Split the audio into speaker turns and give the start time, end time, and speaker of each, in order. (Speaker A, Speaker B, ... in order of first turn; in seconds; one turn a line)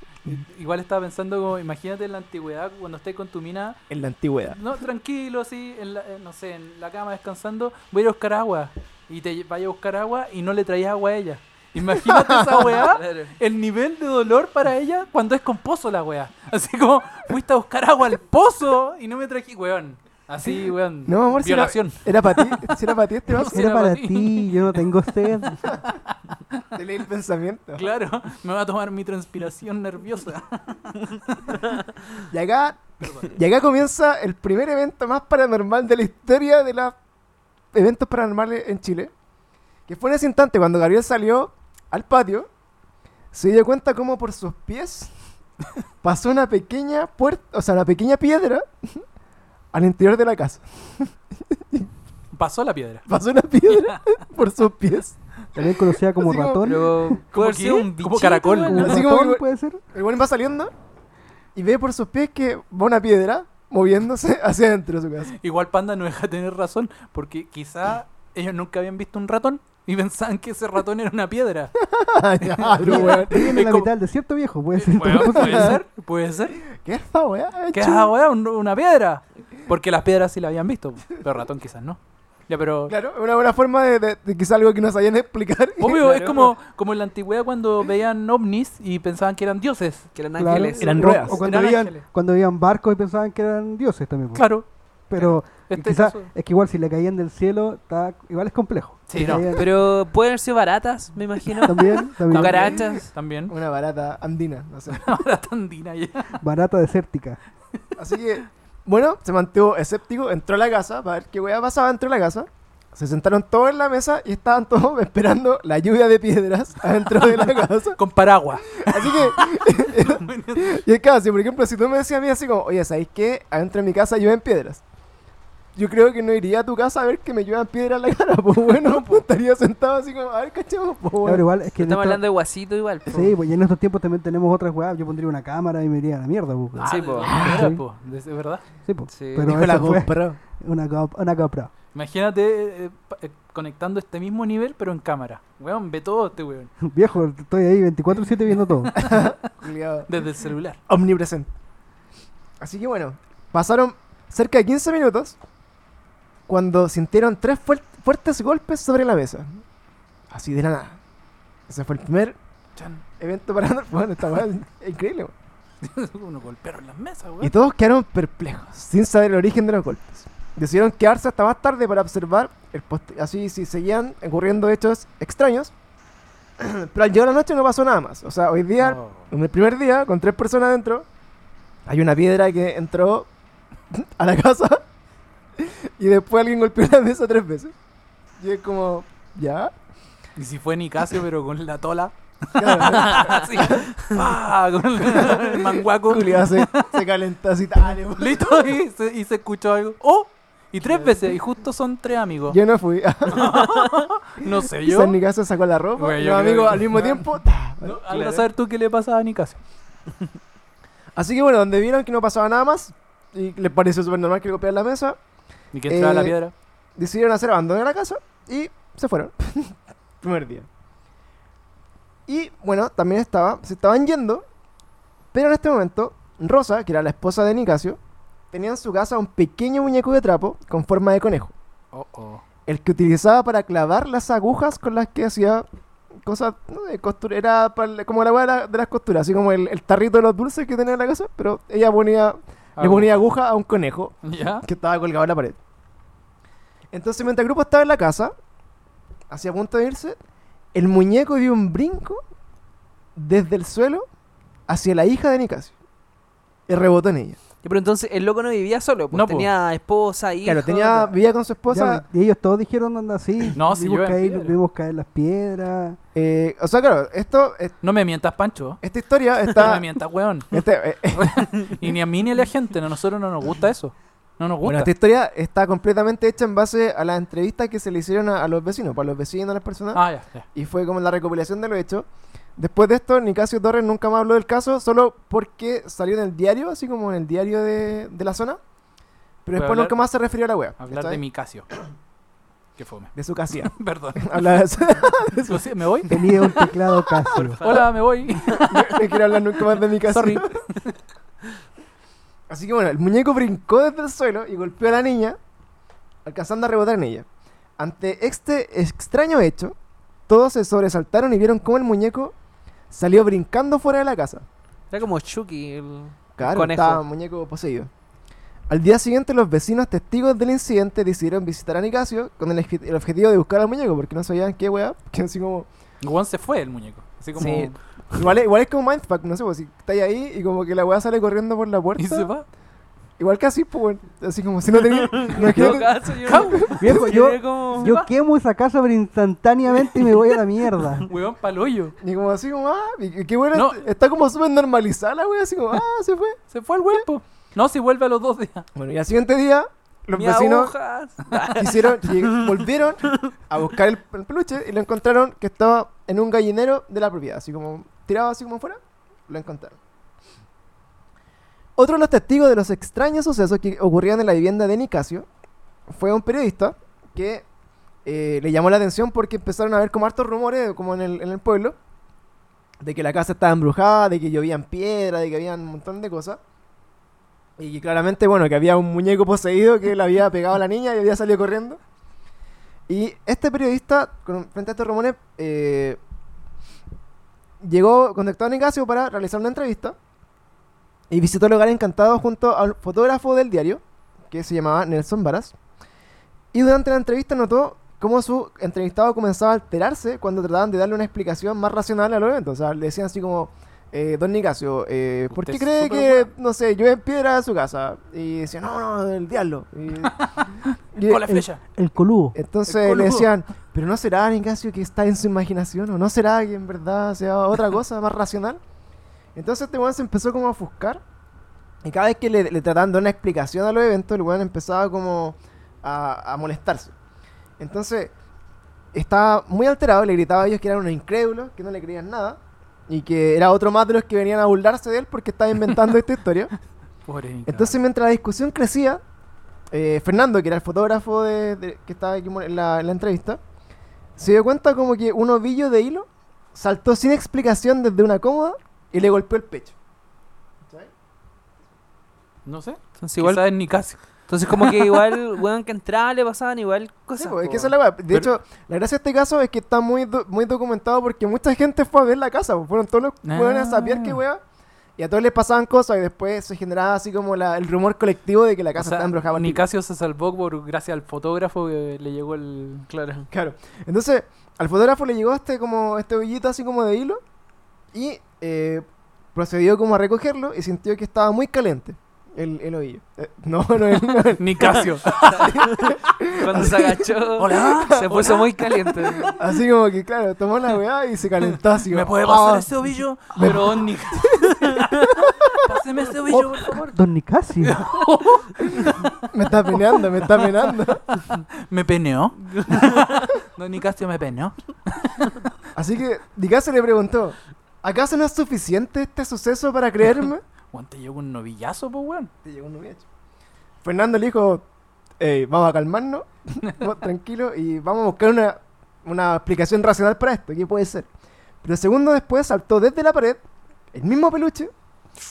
Speaker A: 0.2-3.8
Speaker B: 3.9-4.6
Speaker A: 4.5-22.8
Speaker B: 12.1-12.8
Speaker C: 12.8-13.3
Speaker B: 21.1-23.6
Speaker A: 23.3-24.8
Speaker D: 23.4-25.7
Speaker A: 26.3-26.6
Speaker B: 26.7-27.9
Speaker A: 27.8-31.9
Speaker B: 32.3-37.0
Speaker A: 33.0-33.3
Speaker B: 37.7-39.1
Speaker B: 39.9-42.5
Speaker B: 43.3-45.1
Speaker B: 46.0-49.0
Speaker B: 49.7-51.9
Speaker A: 52.3-53.0
Speaker B: 53.1-56.6
Speaker A: 53.7-54.0
Speaker D: 55.5-57.2
Speaker C: 56.6-59.0
Speaker A: 57.3-59.0
Speaker D: 58.7-59.8
Speaker B: 58.8-60.7
Speaker B: 61.5-65.3
Speaker A: 65.3-71.7
Speaker B: 71.9-73.5
Speaker A: 72.4-73.9
Speaker D: 72.8-75.8
Speaker A: 74.7-76.6
Speaker B: 75.1-75.8
Speaker B: 76.7-78.1
Speaker A: 77.7-82.9
Speaker B: 82.9-86.0
Speaker A: 85.8-90.1
Speaker C: 85.9-86.5
Speaker C: 90.1-91.4
Speaker D: 90.4-94.5
Speaker B: 90.8-91.4
Speaker A: 91.4-92.0
Speaker A: 94.3-96.3
Speaker D: 95.1-99.7
Speaker A: 99.1-99.6
Speaker C: 99.5-103.1
Speaker D: 101.6-102.8
Speaker A: 102.3-103.5
Speaker B: 103.5-105.2
Speaker A: 104.9-106.4
Speaker D: 106.4-107.4
Speaker B: 108.0-118.0
Speaker A: 117.2-120.8
Speaker B: 118.7-124.8
Speaker B: 125.8-131.4
Speaker A: 128.7-129.2
Speaker D: 131.2-132.2
Speaker C: 131.8-133.3
Speaker D: 133.1-137.8
Speaker A: 136.7-138.6
Speaker C: 136.8-137.4
Speaker B: 137.2-137.7
Speaker D: 138.8-141.7
Speaker C: 139.1-139.5
Speaker B: 139.4-140.4
Speaker A: 141.9-146.7
Speaker D: 146.8-149.0
Speaker B: 148.9-150.1
Speaker A: 150.1-150.8
Speaker B: 150.9-151.5
Speaker B: 152.6-155.3
Speaker B: 156.5-159.6
Speaker B: 160.3-161.0
Speaker B: 161.7-162.3
Speaker A: 162.8-163.0
Speaker B: 163.2-165.3
Speaker A: 165.8-167.5
Speaker B: 167.4-175.7
Speaker B: 176.6-181.1
Speaker A: 178.8-179.2
Speaker B: 181.8-183.3
Speaker B: 183.9-184.8
Speaker B: 185.6-187.7
Speaker B: 188.4-189.7
Speaker A: 190.4-196.9
Speaker B: 192.6-194.2
Speaker B: 195.0-198.7
Speaker A: 198.1-202.6
Speaker B: 202.5-203.7
Speaker A: 203.3-205.2
Speaker B: 204.8-208.0
Speaker A: 206.0-207.2
Speaker A: 207.8-209.6
Speaker C: 208.1-208.4
Speaker B: 211.2-215.2
Speaker A: 215.7-216.5
Speaker B: 215.9-216.3
Speaker B: 216.9-220.7
Speaker B: 222.3-224.4
Speaker B: 225.3-228.0
Speaker B: 228.5-231.5
Speaker A: 231.9-232.4
Speaker B: 232.7-235.7
Speaker B: 236.2-245.6
Speaker A: 242.8-243.2
Speaker A: 244.2-244.7
Speaker B: 246.9-248.3
Speaker B: 249.3-250.2
Speaker B: 250.7-252.2
Speaker B: 253.2-254.1
Speaker B: 254.7-255.7
Speaker B: 256.7-257.4
Speaker C: 257.6-261.2
Speaker A: 259.1-259.5
Speaker B: 260.4-262.0
Speaker D: 261.7-266.0
Speaker A: 263.5-264.5
Speaker B: 266.1-267.7
Speaker A: 267.8-268.8
Speaker B: 268.8-269.8
Speaker A: 269.5-274.9
Speaker B: 270.5-271.7
Speaker B: 274.6-288.6
Speaker A: 279.9-280.4
Speaker B: 289.4-291.2
Speaker A: 289.5-290.0
Speaker A: 290.8-291.7
Speaker A: 292.8-294.5
Speaker B: 293.1-296.7
Speaker A: 295.5-296.1
Speaker D: 296.1-297.6
Speaker B: 297.2-297.8
Speaker A: 297.4-299.1
Speaker C: 297.4-297.8
Speaker B: 298.4-300.5
Speaker A: 300.1-300.9
Speaker B: 302.5-305.4
Speaker B: 306.2-307.3
Speaker B: 307.8-309.8
Speaker B: 310.3-312.3
Speaker B: 312.9-314.4
Speaker C: 314.9-317.0
Speaker B: 316.4-317.9
Speaker B: 318.7-325.7
Speaker A: 326.0-328.2
Speaker B: 327.4-332.3
Speaker A: 331.9-332.4
Speaker B: 333.2-336.9
Speaker C: 335.1-337.9
Speaker A: 335.4-335.7
Speaker A: 336.2-337.1
Speaker D: 336.8-341.1
Speaker A: 337.8-338.1
Speaker A: 341.0-341.9
Speaker B: 342.0-346.4
Speaker A: 343.5-343.9
Speaker A: 346.5-348.7
Speaker B: 348.8-350.7
Speaker C: 350.1-352.5
Speaker B: 351.5-359.8
Speaker C: 353.1-353.3
Speaker B: 361.8-365.2
Speaker B: 365.9-367.4
Speaker B: 368.0-371.8
Speaker B: 372.8-376.4
Speaker B: 377.6-381.8
Speaker B: 382.9-386.0
Speaker B: 387.6-389.9
Speaker B: 391.1-395.5
Speaker B: 396.5-410.3
Speaker A: 405.3-406.3
Speaker A: 410.0-411.6
Speaker B: 410.9-411.3
Speaker D: 411.2-412.4
Speaker B: 412.3-418.6
Speaker A: 412.6-413.3
Speaker B: 419.3-421.0
Speaker B: 421.8-426.9
Speaker B: 427.6-428.1
Speaker B: 428.9-436.5
Speaker A: 437.1-437.8
Speaker B: 437.4-439.0
Speaker B: 439.7-443.4
Speaker B: 444.2-449.7
Speaker A: 452.4-455.1
Speaker C: 453.0-457.7
Speaker B: 457.2-464.4
Speaker A: 463.2-464.2
Speaker B: 465.0-469.6
Speaker A: 468.8-472.9
Speaker C: 472.9-473.3
Speaker B: 473.3-477.2
Speaker B: 477.9-486.9
Speaker A: 484.4-485.6
Speaker C: 485.1-489.3
Speaker A: 487.4-489.4
Speaker B: 489.3-492.7
Speaker A: 491.4-496.9
Speaker B: 493.3-494.4
Speaker B: 495.2-495.7
Speaker D: 496.3-497.8
Speaker A: 497.6-499.1
Speaker B: 498.6-501.0
Speaker A: 501.2-505.4
Speaker C: 502.4-503.2
Speaker B: 505.7-510.4
Speaker A: 510.7-512.3
Speaker B: 512.4-513.0
Speaker B: 513.8-514.6
Speaker B: 515.2-521.1
Speaker B: 521.6-524.7